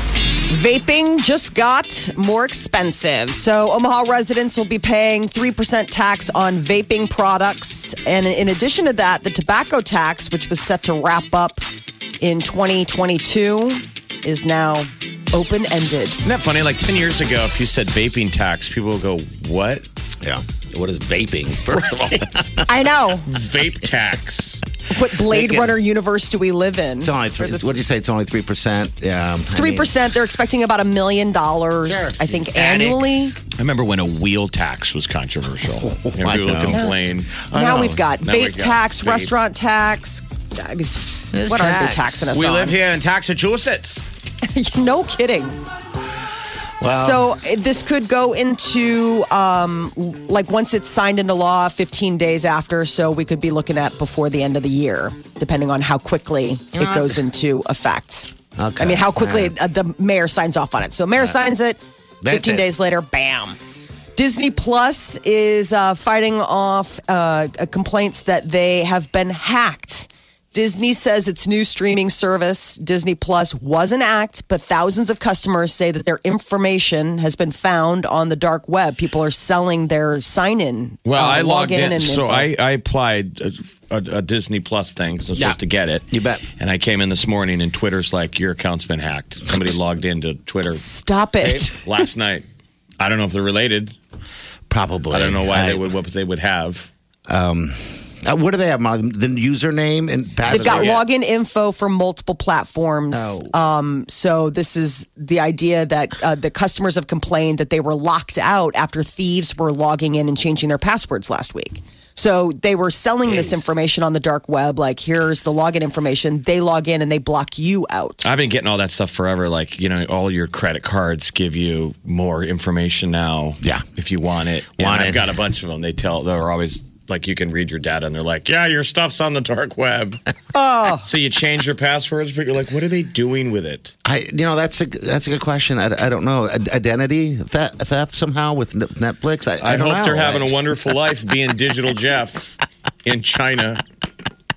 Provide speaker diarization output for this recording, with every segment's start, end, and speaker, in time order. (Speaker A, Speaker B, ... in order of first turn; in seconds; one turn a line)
Speaker A: 0.5-11.7
Speaker A: 12.2-16.2
Speaker B: 16.2-19.8
Speaker C: 20.2-22.7
Speaker A: 22.7-23.3
Speaker B: 23.2-24.6
Speaker A: 24.9-27.8
Speaker B: 25.3-25.7
Speaker C: 27.0-30.0
Speaker A: 29.5-33.3
Speaker C: 31.9-32.5
Speaker B: 32.5-37.3
Speaker C: 35.8-36.9
Speaker A: 36.7-37.0
Speaker C: 37.4-38.1
Speaker A: 37.5-42.8
Speaker B: 38.2-39.3
Speaker C: 41.3-42.3
Speaker B: 42.3-44.0
Speaker A: 44.4-45.6
Speaker C: 46.8-47.3
Speaker A: 46.9-63.6
Speaker C: 56.7-57.1
Speaker C: 58.5-59.5
Speaker C: 62.2-62.7
Speaker A: 64.2-82.5
Speaker B: 81.0-90.8
Speaker C: 86.1-86.4
Speaker A: 90.7-91.8
Speaker C: 91.4-91.7
Speaker B: 91.7-92.5
Speaker B: 93.0-93.9
Speaker C: 94.7-95.9
Speaker B: 95.1-96.9
Speaker C: 97.3-101.0
Speaker A: 100.5-118.3
Speaker B: 100.5-101.1
Speaker C: 103.1-103.5
Speaker B: 113.2-113.6
Speaker B: 118.2-130.2
Speaker C: 124.8-125.2
Speaker A: 130.5-131.1
Speaker B: 131.0-133.9
Speaker C: 134.0-140.6
Speaker B: 139.6-143.8